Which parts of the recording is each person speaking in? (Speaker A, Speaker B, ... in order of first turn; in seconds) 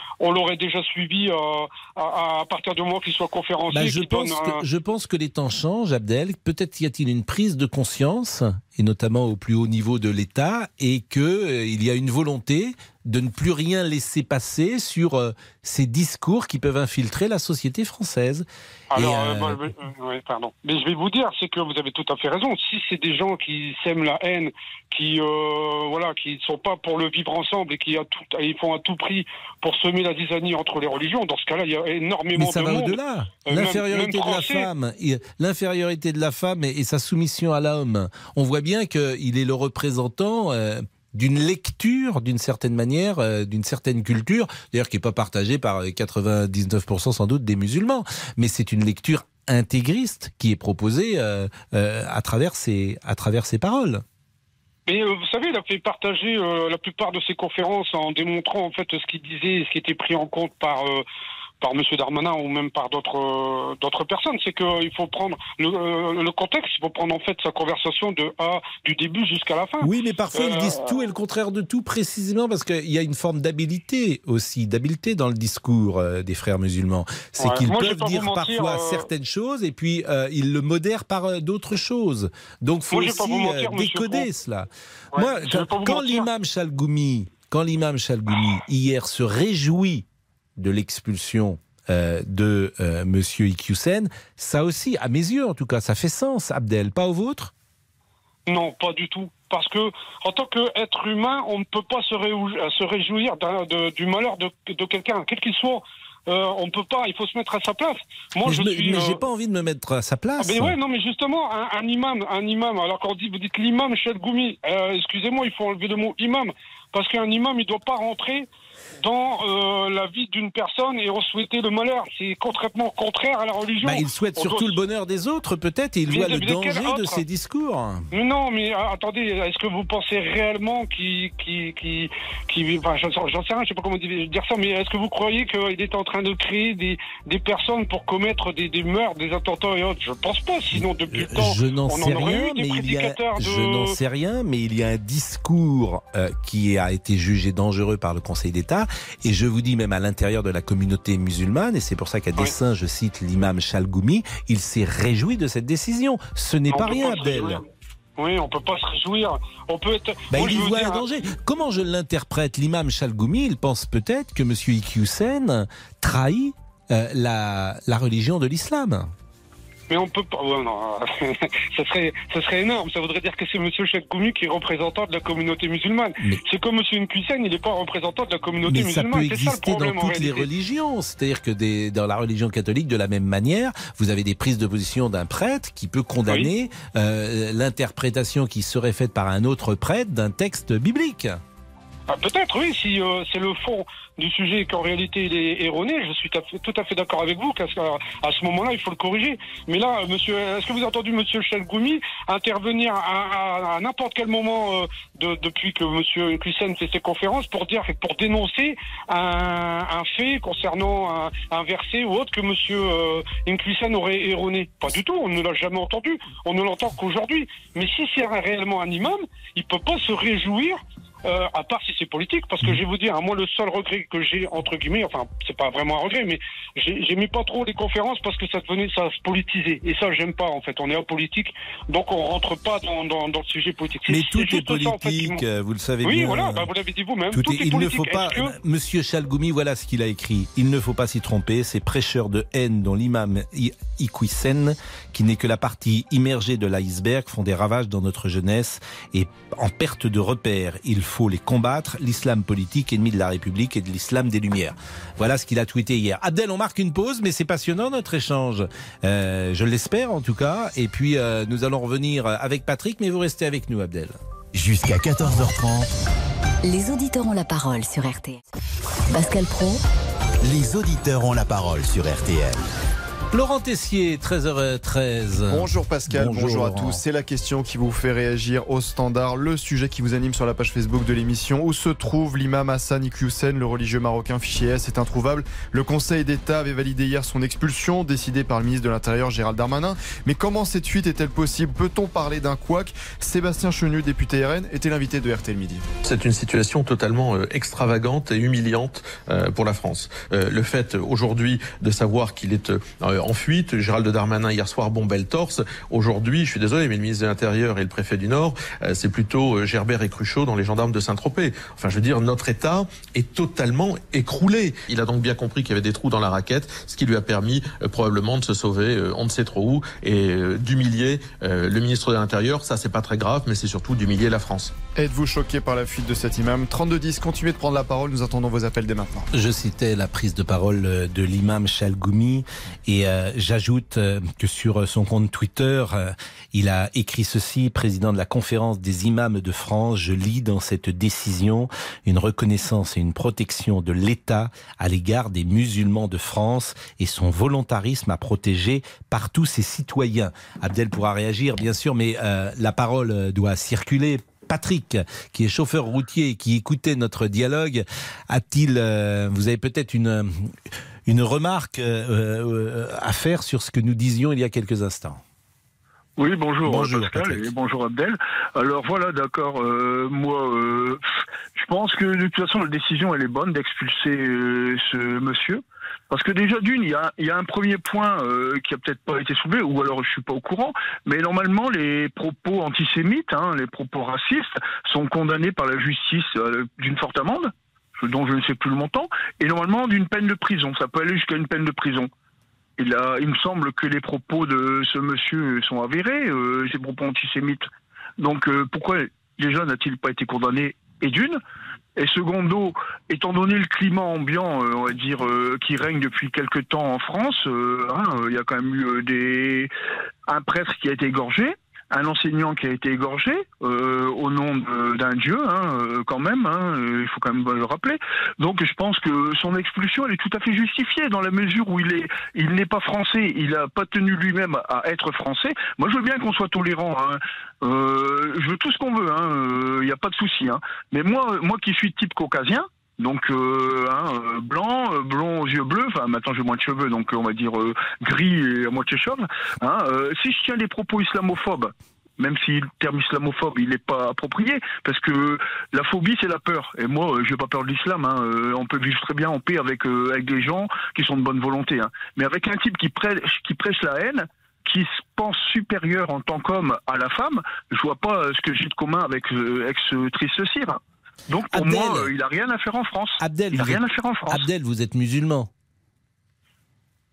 Speaker A: 0.2-4.6, 18.9-34.7, 54.9-61.0, 61.6-71.1, 77.4-79.1, 82.9-84.3, 85.1-86.3, 98.5-109.2, 110.4-118.5, 119.0-124.7, 126.1-127.2, 128.1-143.9, 156.7-157.6, 158.2-161.0, 169.9-180.5, 192.1-235.4, 236.0-238.5
Speaker B: 3.7-19.6, 32.3-54.0, 69.8-97.5, 108.4-110.7, 123.8-128.1, 140.7-157.6, 160.3-169.1, 178.7-191.4, 234.1-236.7, 237.3-264.2, 273.3-277.0, 329.3-365.2, 366.6-367.5, 461.5-462.1, 463.2-465.5
Speaker C: 264.5-265.9, 270.4-272.7
Speaker D: 266.6-268.4, 269.1-269.8
Speaker E: 275.5-295.9, 324.9-329.3
Speaker F: 296.0-324.7
Speaker G: 366.2-371.0, 371.5-392.1, 392.8-397.6, 398.2-401.4, 402.0-409.7, 410.3-464.4